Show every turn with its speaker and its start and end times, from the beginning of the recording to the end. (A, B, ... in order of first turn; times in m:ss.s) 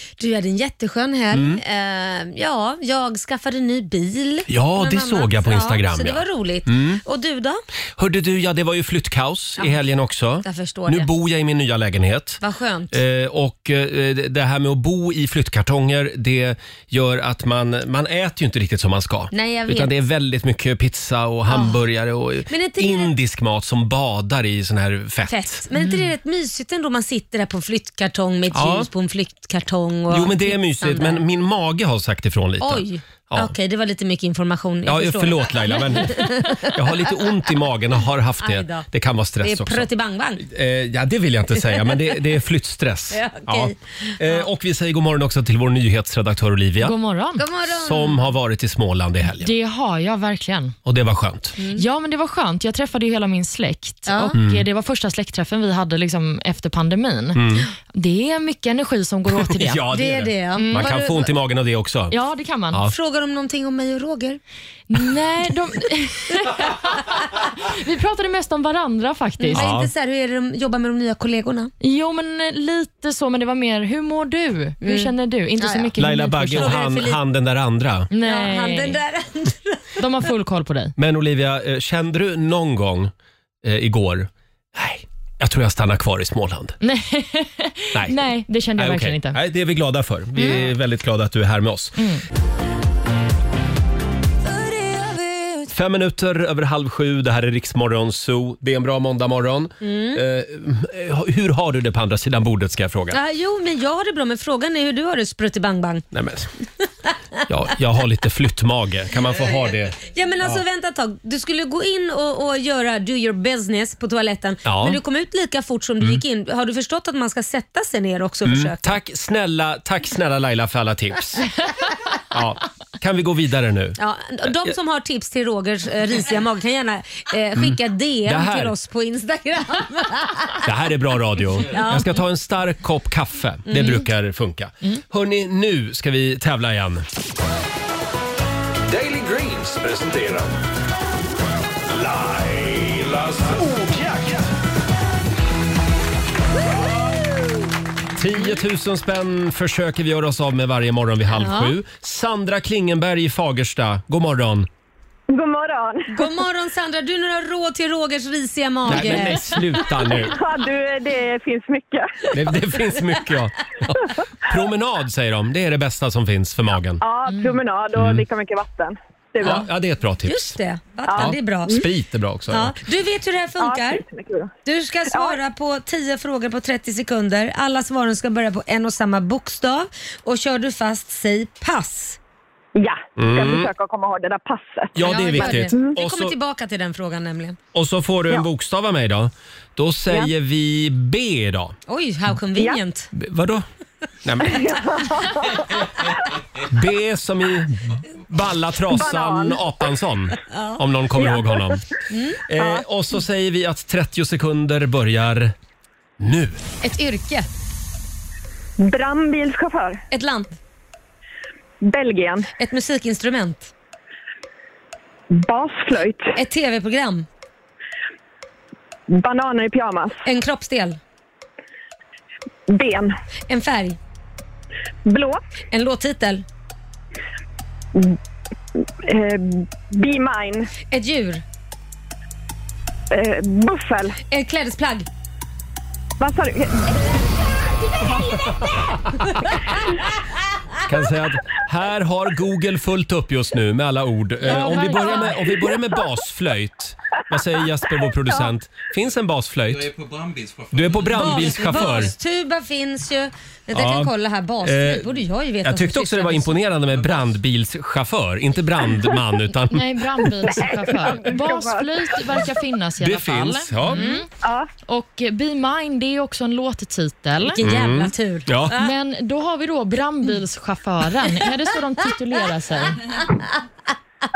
0:00.2-0:07.6 A
0:01.3-0:01.6 B
0:04.5-0:07.0 B
0:08.0-0:12.4 B
0:10.4-0:11.1 A
0:12.4-0:13.0 A
0:12.9-0:25.6 B
0:19.3-0:19.9 A
0:21.5-0:21.8 A
0:22.5-0:23.1 A
0:25.3-0:31.2 A
0:25.7-0:26.1 C
0:28.5-0:28.9 B
0:30.1-0:33.5 B
0:32.6-0:37.3 A
0:34.9-0:39.9 B
0:38.4-0:38.9 A
0:39.4-0:40.4 A
0:40.4-0:47.0 B
0:41.7-0:42.1 A
0:43.1-0:44.5 A
0:46.8-0:47.4 C
0:47.4-0:48.2 A
0:47.7-0:49.5 B
0:49.4-0:50.8 C
0:50.9-0:51.6 B
0:51.6-0:51.8 A
0:51.8-0:59.8 C
0:54.1-0:54.3 A
0:54.3-0:54.6 B
0:57.4-0:57.7 B
0:59.3-1:02.2 B
0:59.9-1:01.3 A
1:00.6-1:00.9 C
1:02.1-1:02.8 C
1:02.9-1:04.4 A
1:04.9-1:09.6 C
1:09.4-1:11.7 A
1:09.5-1:09.9 B
1:11.8-1:16.7 C
1:14.8-1:15.9 A
1:16.0-1:18.1 B
1:16.6-1:17.2 A
1:18.1-1:19.0 C
1:18.2-1:20.0 A
1:20.0-1:21.0 C
1:21.0-1:23.1 B
1:23.6-1:26.8 B
1:26.8-1:29.4 C
1:28.8-1:32.0 B
1:32.0-1:32.2 C
1:35.7-1:43.2 B
1:39.8-1:40.2 A
1:43.1-1:46.1 A
1:46.1-1:46.5 B
1:47.5-1:50.6 B
1:50.1-1:59.0 A
1:54.6-1:55.0 B
1:58.4-2:01.5 B
2:02.3-2:04.7 B
2:04.0-2:10.6 A
2:07.6-2:08.7 B
2:10.6-2:17.1 B
2:11.7-2:12.2 A
2:13.7-2:14.1 A
2:18.9-2:20.6 D
2:21.9-2:24.5 D
2:28.2-2:34.7 B
2:31.3-2:31.8 A
2:35.3-2:36.2 E
2:36.1-2:39.7 A
2:38.8-2:40.4 B
2:40.3-2:42.3 E
2:42.3-2:47.0 B
2:47.0-2:49.7 E
2:47.3-2:47.6 C
2:48.0-2:48.3 B
2:49.4-2:50.6 B
2:50.2-2:51.9 A
2:51.1-2:51.9 E
2:51.2-2:52.8 B
2:52.5-2:54.0 A
2:53.6-2:54.5 E
2:54.6-3:02.2 A
2:55.1-2:55.4 E
3:02.8-3:05.9 E
3:03.2-3:03.7 B
3:05.0-3:06.4 B
3:05.0-3:07.6 A
3:07.7-3:11.8 B
3:11.9-3:13.1 A
3:13.1-3:13.7 B
3:14.2-3:14.7 B
3:14.4-3:16.1 E
3:16.7-3:21.8 B
3:18.9-3:19.6 E
3:20.5-3:20.8 A
3:21.2-3:21.6 E
3:22.1-3:22.4 A
3:22.5-3:25.6 B
3:22.6-3:22.8 E
3:26.2-3:26.6 B
3:26.8-3:27.5 A
3:28.8-3:30.0 E
3:30.1-3:30.6 A
3:31.8-3:32.5 E
3:32.6-3:33.7 A
3:35.3-3:36.3 E
3:36.4-3:37.3 A
3:39.1-3:40.2 E
3:40.2-3:41.0 A
3:42.7-3:43.1 E
3:43.5-3:44.0 A
3:45.1-3:45.4 E
3:45.7-3:46.4 A
3:49.0-3:50.7 E
3:50.9-3:51.4 A
3:53.1-3:54.2 E
3:54.3-3:55.1 A
3:56.2-3:57.2 E
3:57.9-3:58.6 E
4:00.8-4:09.9 B
4:04.4-4:05.4 A
4:04.5-4:05.3 C
4:09.7-4:12.1 F
4:10.7-4:12.2 B
4:11.1-4:16.6 A
4:13.7-4:15.0 B
4:15.6-4:20.5 B
4:16.9-4:17.4 F
4:19.7-4:24.3 C
4:20.4-4:22.0 E
4:23.0-4:24.1 B
4:23.9-4:24.2 A
4:24.4-4:24.7 E
4:24.9-4:27.6 C
4:27.4-4:28.9 A
4:27.6-4:28.8 B
4:28.8-4:33.0 C